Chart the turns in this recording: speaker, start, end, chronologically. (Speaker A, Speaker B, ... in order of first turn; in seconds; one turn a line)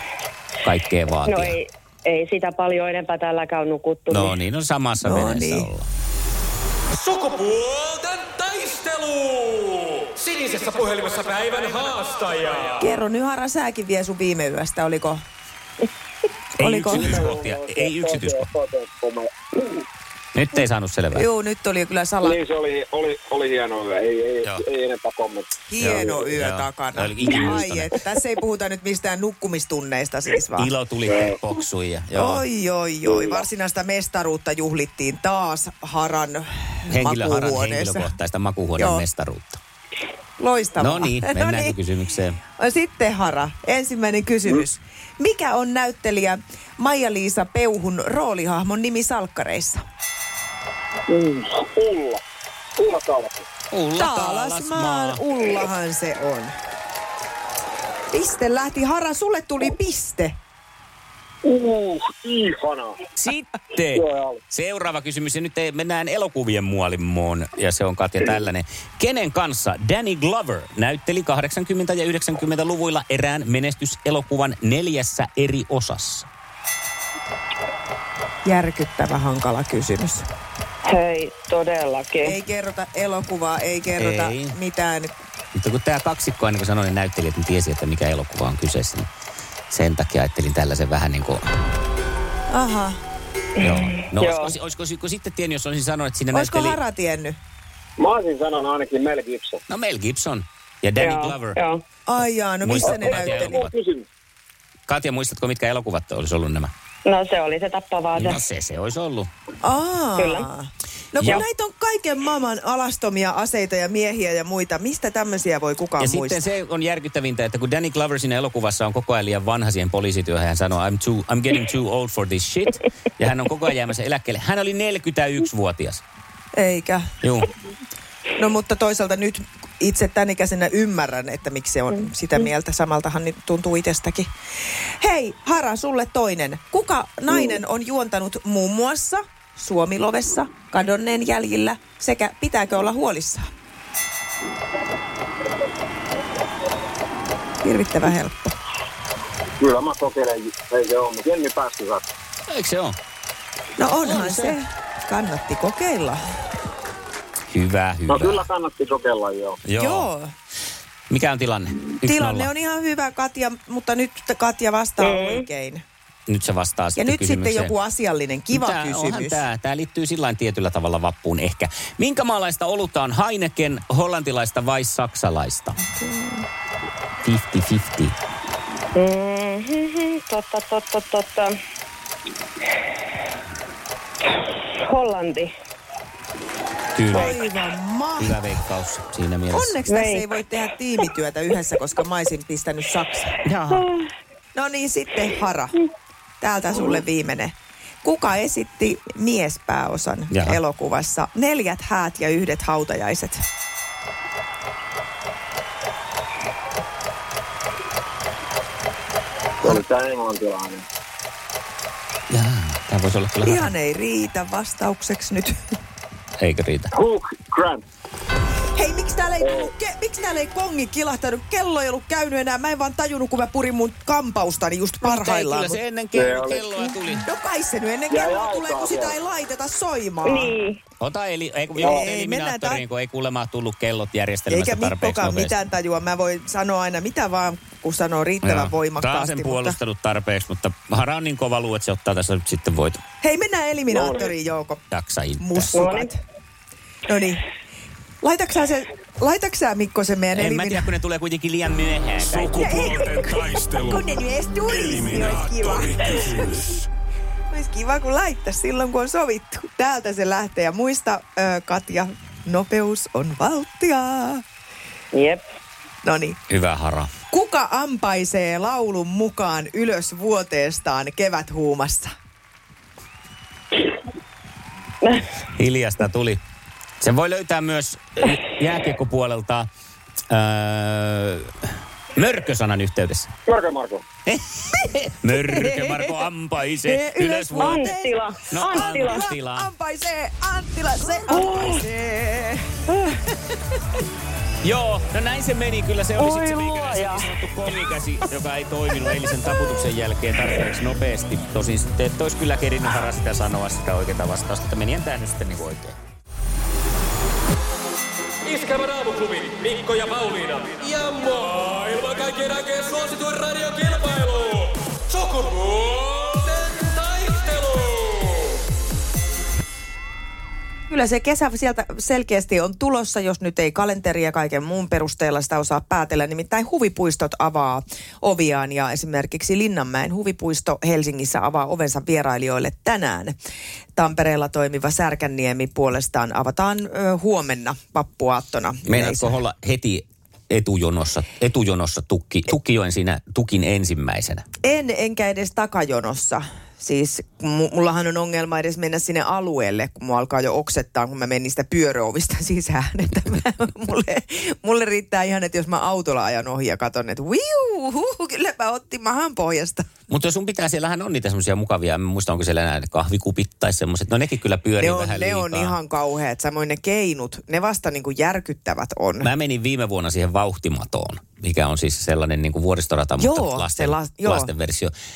Speaker A: 0.6-1.6
Speaker B: 1.2-4.3
Speaker A: 4.1-5.8
Speaker C: 5.0-5.7
Speaker D: 6.9-12.8
Speaker C: 12.8-15.2
Speaker C: 16.6-17.3
Speaker A: 16.6-18.5
Speaker E: 16.9-19.8
Speaker A: 20.3-21.2
Speaker C: 21.1-22.4
Speaker E: 22.2-26.2
Speaker C: 25.7-30.7
Speaker A: 25.8-27.9
Speaker A: 30.6-32.4
Speaker E: 31.1-31.4
Speaker C: 32.1-38.1
Speaker A: 36.9-39.6
Speaker C: 38.8-39.0
Speaker C: 40.4-41.8
Speaker A: 40.8-42.4
Speaker C: 42.6-49.8
Speaker E: 51.1-52.2
Speaker E: 52.8-53.4
Speaker A: 53.7-55.2
Speaker C: 54.0-56.5
Speaker C: 58.1-60.3
Speaker E: 61.4-63.0
Speaker A: 63.2-76.3
Speaker E: 63.8-64.4
Speaker C: 78.4-80.2
Speaker B: 80.8-82.4
Speaker C: 82.2-85.1
Speaker A: 84.0-84.5
Speaker A: 85.5-89.1
Speaker A: 89.7-91.4
Speaker C: 92.5-93.0
Speaker A: 93.6-96.8
Speaker B: 93.7-94.5
Speaker C: 96.3-97.4
Speaker E: 98.0-99.6
Speaker A: 99.7-101.6
Speaker B: 101.0-101.8
Speaker C: 102.1-103.5
Speaker A: 102.6-103.7
Speaker E: 102.8-104.0
Speaker A: 104.9-106.7
Speaker B: 107.0-108.4
Speaker A: 108.2-109.3
Speaker C: 109.6-116.4
Speaker B: 110.1-110.5
Speaker A: 111.2-111.4
Speaker A: 116.0-126.0
Speaker C: 126.5-127.0
Speaker A: 127.2-127.5
Speaker C: 128.3-134.3
Speaker C: 135.0-143.5
Speaker C: 147.6-148.5
Speaker E: 149.6-152.0
Speaker A: 152.5-153.0
Speaker C: 153.8-156.2
Speaker A: 154.0-154.6
Speaker A: 157.5-158.4
Speaker E: 158.1-159.6
Speaker A: 159.7-160.1
Speaker C: 159.7-160.3
Speaker A: 161.1-162.5
Speaker C: 162.0-165.8
Speaker B: 165.0-165.5
Speaker A: 166.3-167.7
Speaker C: 166.9-169.4
Speaker A: 168.5-175.8
Speaker C: 176.0-176.4
Speaker A: 177.2-178.1
Speaker B: 178.9-181.6
Speaker B: 184.8-185.5
Speaker A: 186.9-187.4
Speaker C: 187.1-188.4
Speaker B: 187.1-187.4
Speaker A: 188.2-189.8
Speaker C: 189.5-193.4
Speaker B: 189.8-190.4
Speaker A: 193.4-193.9
Speaker B: 193.7-194.0
Speaker C: 194.5-195.8
Speaker C: 196.4-203.4
Speaker A: 200.3-200.6
Speaker E: 209.6-210.8
Speaker A: 212.3-213.7
Speaker C: 213.4-215.6
Speaker A: 216.4-216.9
Speaker E: 216.9-217.8
Speaker C: 218.8-225.8
Speaker E: 219.4-219.7
Speaker A: 225.0-227.2
Speaker E: 226.1-226.7
Speaker C: 226.8-230.5
Speaker E: 228.1-229.1
Speaker B: 230.2-230.8
Speaker A: 231.0-235.5
Speaker C: 231.8-232.8
Speaker C: 234.5-239.8
Speaker A: 238.4-243.0
Speaker C: 243.2-244.8
Speaker E: 243.9-244.3
Speaker A: 244.9-245.8
Speaker C: 245.4-246.2
Speaker B: 245.7-246.1
Speaker C: 247.1-247.4
Speaker C: 248.2-250.9
Speaker A: 250.3-252.7
Speaker D: 252.2-254.0
Speaker C: 252.6-256.6
Speaker D: 254.7-256.8
Speaker C: 257.5-264.4
Speaker B: 265.1-265.4
Speaker C: 266.0-266.4
Speaker A: 266.5-267.1
Speaker C: 267.3-272.1
Speaker A: 275.5-276.4
Speaker A: 277.0-279.7
Speaker A: 280.3-281.5
Speaker A: 282.1-283.3
Speaker E: 283.5-284.0
Speaker A: 284.3-287.9
Speaker C: 285.4-286.2
Speaker C: 286.8-293.5
Speaker B: 287.6-289.2
Speaker A: 288.5-289.7
Speaker B: 291.3-291.9
Speaker A: 294.6-305.9
Speaker B: 296.1-297.3
Speaker D: 308.4-318.5
Speaker C: 320.9-333.3
Speaker C: 333.9-339.4
Speaker A: 338.9-344.4
Speaker C: 344.6-359.9
Speaker A: 360.1-365.8
Speaker C: 364.8-369.3
Speaker A: 369.2-374.9
Speaker C: 373.2-374.5